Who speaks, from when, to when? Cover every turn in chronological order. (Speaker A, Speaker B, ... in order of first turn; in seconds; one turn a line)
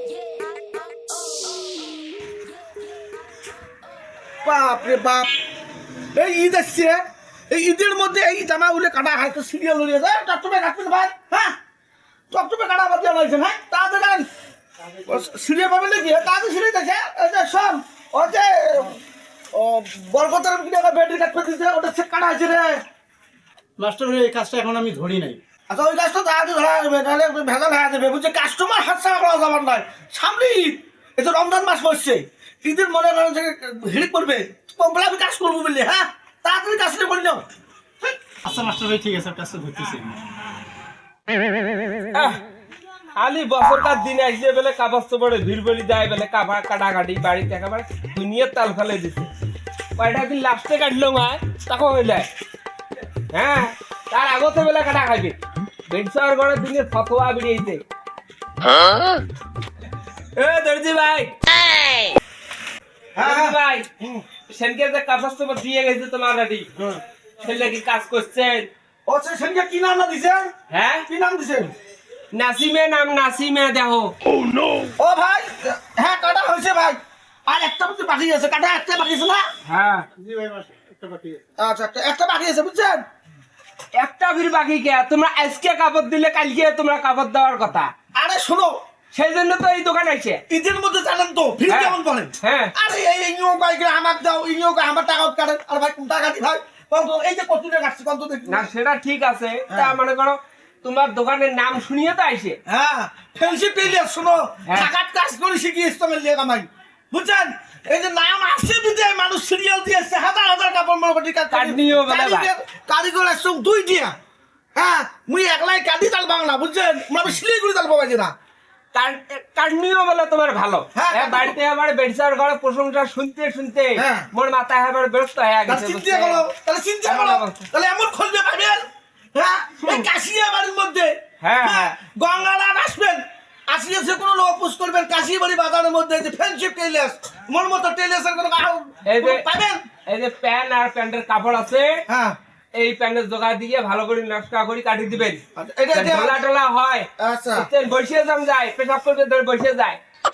Speaker A: 4.4-5.3
Speaker A: 6.1-11.5
Speaker A: 12.3-14.3
Speaker A: 15.0-19.0
Speaker A: 19.5-22.8
Speaker B: 23.8-25.4
Speaker A: 25.7-37.4
Speaker B: 38.4-40.2
Speaker C: 42.1-42.4
Speaker C: 43.1-49.3
Speaker C: 50.0-52.3
Speaker C: 53.3-55.4
Speaker C: 55.9-57.8
Speaker C: 60.4-61.3
Speaker A: 63.1-64.2
Speaker C: 63.2-63.9
Speaker C: 64.5-66.7
Speaker C: 67.4-68.7
Speaker A: 69.0-70.5
Speaker C: 70.7-71.1
Speaker A: 71.1-71.7
Speaker C: 72.3-74.1
Speaker A: 75.0-79.5
Speaker C: 79.7-80.1
Speaker B: 80.2-81.4
Speaker A: 81.6-83.0
Speaker C: 84.0-87.9
Speaker A: 88.1-88.8
Speaker C: 89.1-90.4
Speaker A: 90.5-98.6
Speaker C: 91.7-92.7
Speaker C: 98.5-102.6
Speaker A: 99.7-99.9
Speaker A: 102.7-114.1
Speaker C: 111.5-112.5
Speaker A: 114.7-118.3
Speaker C: 118.9-126.5
Speaker A: 120.9-121.6
Speaker A: 124.0-124.3
Speaker A: 125.7-139.8
Speaker C: 127.0-127.7
Speaker C: 131.4-131.9
Speaker C: 139.1-139.4
Speaker C: 140.1-142.0
Speaker A: 142.1-142.3
Speaker C: 142.7-145.4
Speaker A: 145.6-146.4
Speaker C: 145.9-150.0
Speaker A: 147.2-147.7